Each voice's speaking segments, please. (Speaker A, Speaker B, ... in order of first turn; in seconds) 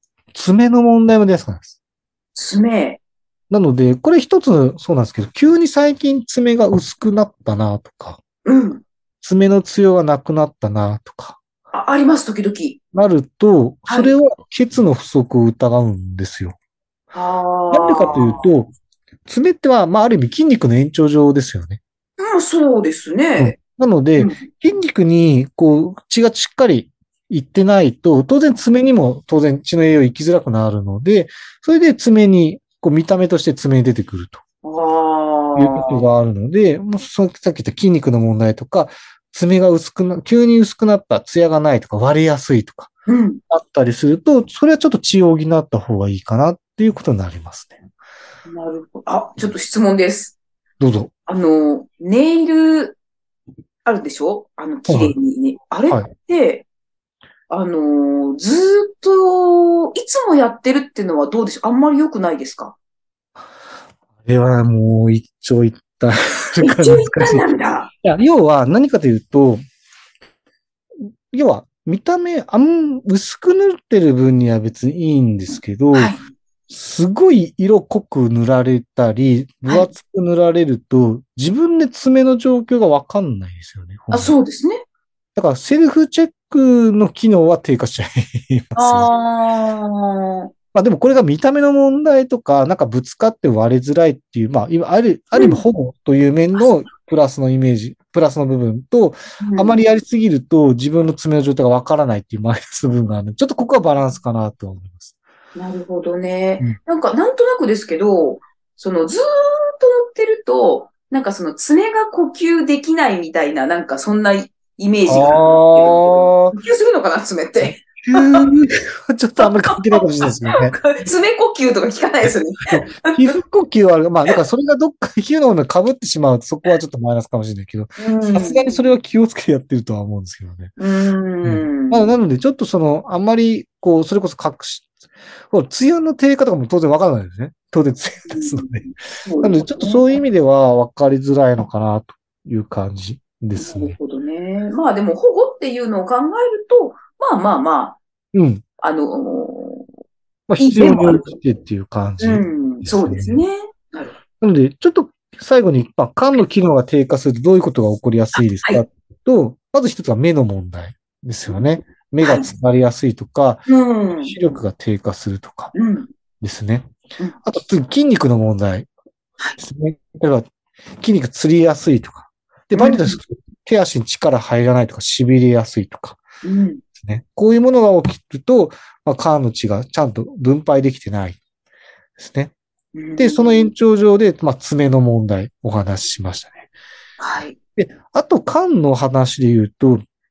Speaker A: 0.3-1.8, 3.5-8.2, 9.2-11.4, 12.9-16.6, 17.7-18.7, 19.3-21.8, 23.4-34.4, 35.6-42.9, 43.5-47.8, 50.8-51.1, 54.9-55.1, 64.2-67.5, 68.0-69.6, 71.3-76.2, 76.7-84.3, 85.3-89.1, 90.7-105.1, 115.1-116.5, 117.6-121.0, 122.2-130.7, 131.4-134.9, 135.5-144.0, 148.3-148.6, 150.5-153.4, 154.4-165.7, 166.4-166.9, 167.4-168.9, 169.6-170.5, 171.0-176.2, 177.0-181.4, 182.2-182.5, 183.2-186.7, 187.8-190.0
Speaker B: 2.4-3.0, 8.4-8.8, 11.7-12.8, 13.9-14.1, 17.1-18.5, 22.2-23.6, 34.6-36.0, 43.1-43.4, 48.5-50.4, 51.3-53.0, 53.9-56.7, 57.5-62.8, 66.6-67.9, 75.9-76.2, 84.1-84.8, 88.8-90.5, 95.3-95.6, 99.4-99.8, 105.6-118.5, 119.4-123.3, 128.0-128.8, 130.8-132.1, 138.3-140.0, 143.6-148.0, 148.8-149.9, 150.6-151.3, 152.2-154.2, 158.4-158.8, 162.2-162.5, 163.7-164.3, 165.7-166.1, 172.7-173.2, 176.4-176.8, 182.9-183.7, 187.2-187.6